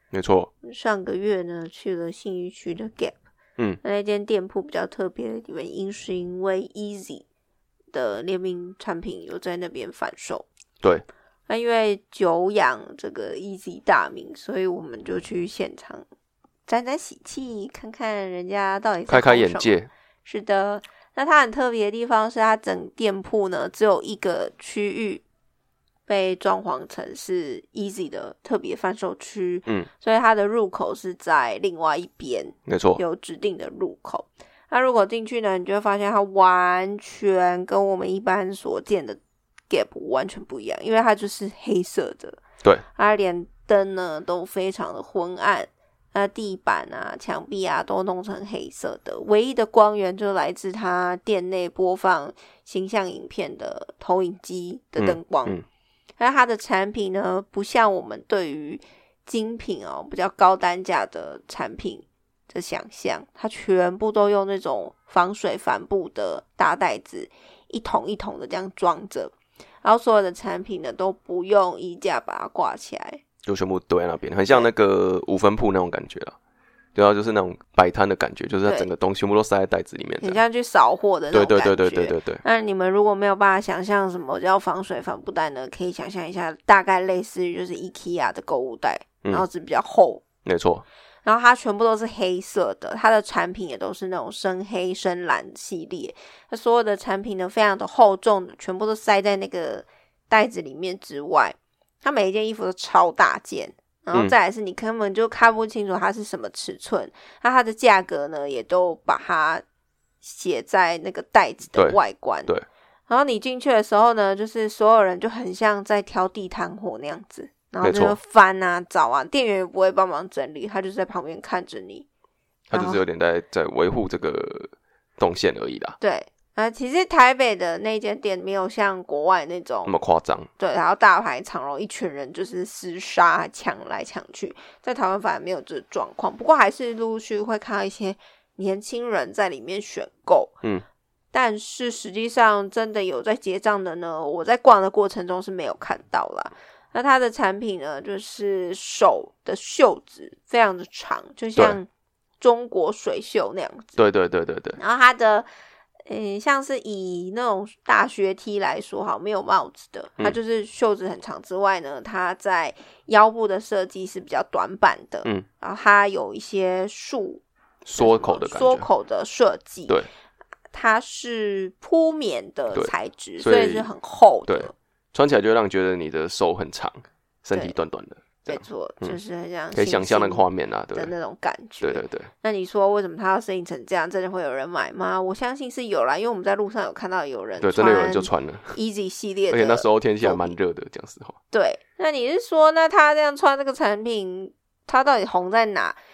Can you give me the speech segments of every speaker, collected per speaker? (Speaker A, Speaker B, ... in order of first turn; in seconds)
Speaker A: 0.1-0.5, 19.1-19.9, 32.7-33.0, 55.0-55.6, 73.4-76.3, 77.0-80.4, 81.3-82.4, 90.5-90.8, 111.8-112.7, 117.8-118.2, 122.7-126.0, 129.9-130.5, 154.0-154.8, 167.8-168.9, 172.7-173.9, 174.5-179.2, 179.7-181.1, 181.8-182.3, 187.6-188.8, 189.5-191.4
Speaker B: 0.6-3.2, 3.8-7.2, 7.9-10.5, 11.5-16.0, 16.7-25.2, 26.1-42.4, 43.0-55.6, 56.2-73.2, 80.2-90.2, 91.2-109.6, 110.2-112.5, 113.1-122.0, 122.7-123.0, 126.0-129.9, 130.6-140.6, 141.3-151.9, 152.4-153.9, 154.8-155.5, 156.1-167.4, 167.9-170.0, 170.7-174.7, 178.5-190.5, 191.5-196.0